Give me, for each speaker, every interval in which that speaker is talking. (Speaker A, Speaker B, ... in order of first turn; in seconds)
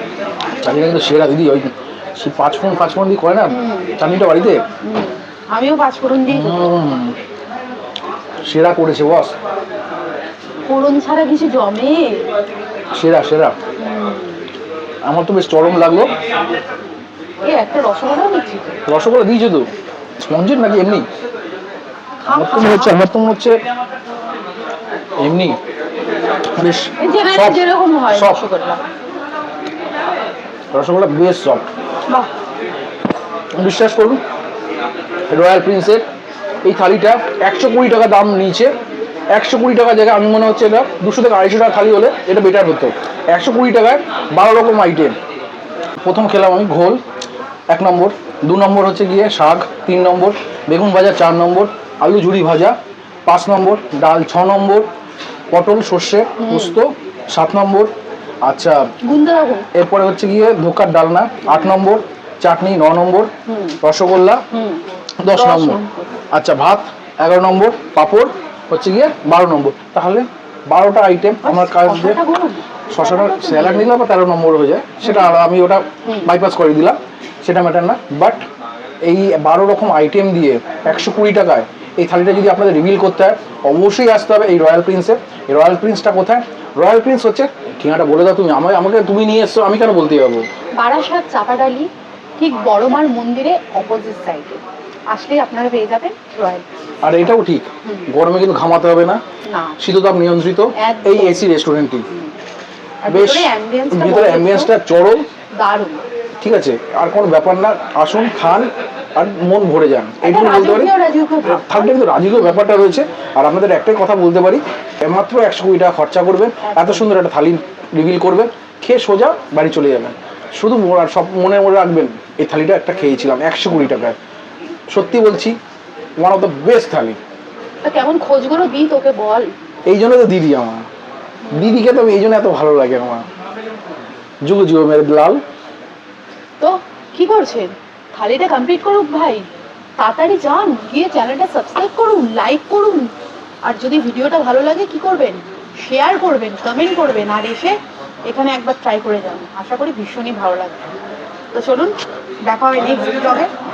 Speaker A: 0.6-4.6, 6.3-7.2, 8.4-9.3, 12.9-13.6, 15.1-16.1, 18.9-21.1, 22.3-23.6, 25.2-25.6, 26.5-28.4, 30.7-31.7, 33.6-34.2, 35.3-36.1, 36.6-38.7, 39.3-45.2, 46.0-47.0, 47.7-54.9, 55.5-57.9, 58.5-58.9, 59.8-63.3, 63.8-64.4, 65.2-65.8, 66.3-72.2, 72.9-78.4, 79.0-90.5, 97.0-99.2, 99.8-102.1, 103.1-105.2, 106.4-110.9, 111.5-124.2, 124.9-125.6, 126.2-127.2, 129.9-130.9, 131.5-133.3, 134.4-135.4
Speaker B: 3.5-3.9, 4.8-6.7, 10.7-12.2, 13.8-14.4, 17.4-18.8, 22.2-23.0, 27.0-28.8, 56.4-56.8, 59.0-59.7, 61.5-61.7, 63.5-63.8, 64.5-66.1, 71.4-73.9, 75.0-75.4, 76.0-76.3, 90.8-96.6, 99.5-99.8, 100.8-101.5, 103.0-104.7, 105.5-106.0, 110.2-111.9, 116.6-117.1, 127.8-129.5, 131.4-131.9, 136.6-143.1, 143.6-147.8, 148.3-150.8, 151.5-151.9, 152.5-153.5